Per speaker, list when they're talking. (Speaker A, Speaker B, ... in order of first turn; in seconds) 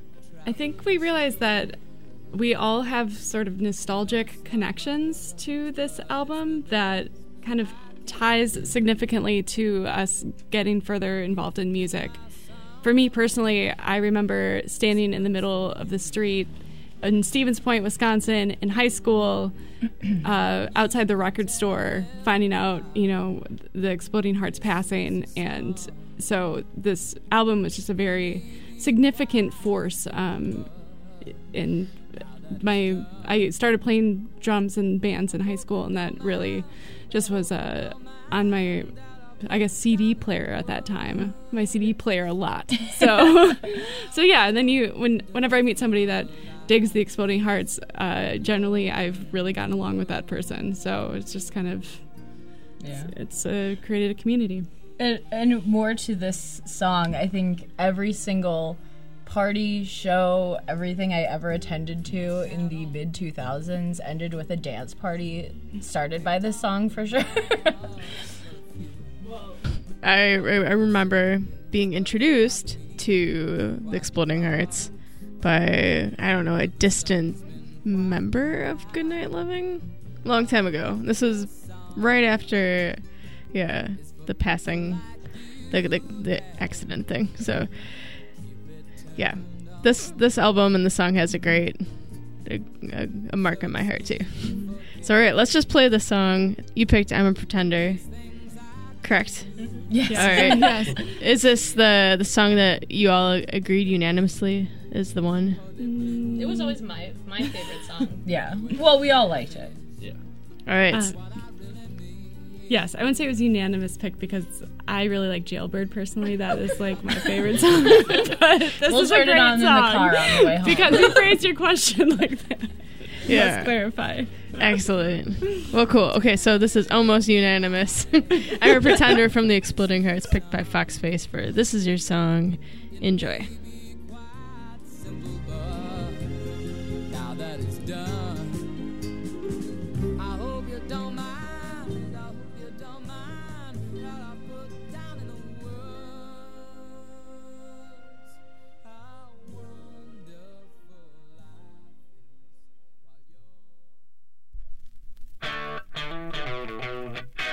Speaker A: 0.4-1.8, 2.3-12.2, 12.8-19.5, 20.1-30.7, 31.2-52.0, 53.1-54.7, 94.5-94.8, 100.0-101.1, 105.8-106.8, 110.9-111.2, 112.7-122.7, 123.2-124.5
Speaker B: 52.8-53.1, 55.0-67.8, 99.9-100.9, 108.2-109.8, 118.8-121.2
Speaker C: 70.0-88.3, 89.2-98.1, 99.0-99.5, 100.1-105.6, 110.7-111.1, 123.3-123.7, 124.6-133.6
Speaker D: 99.6-99.8, 106.3-108.2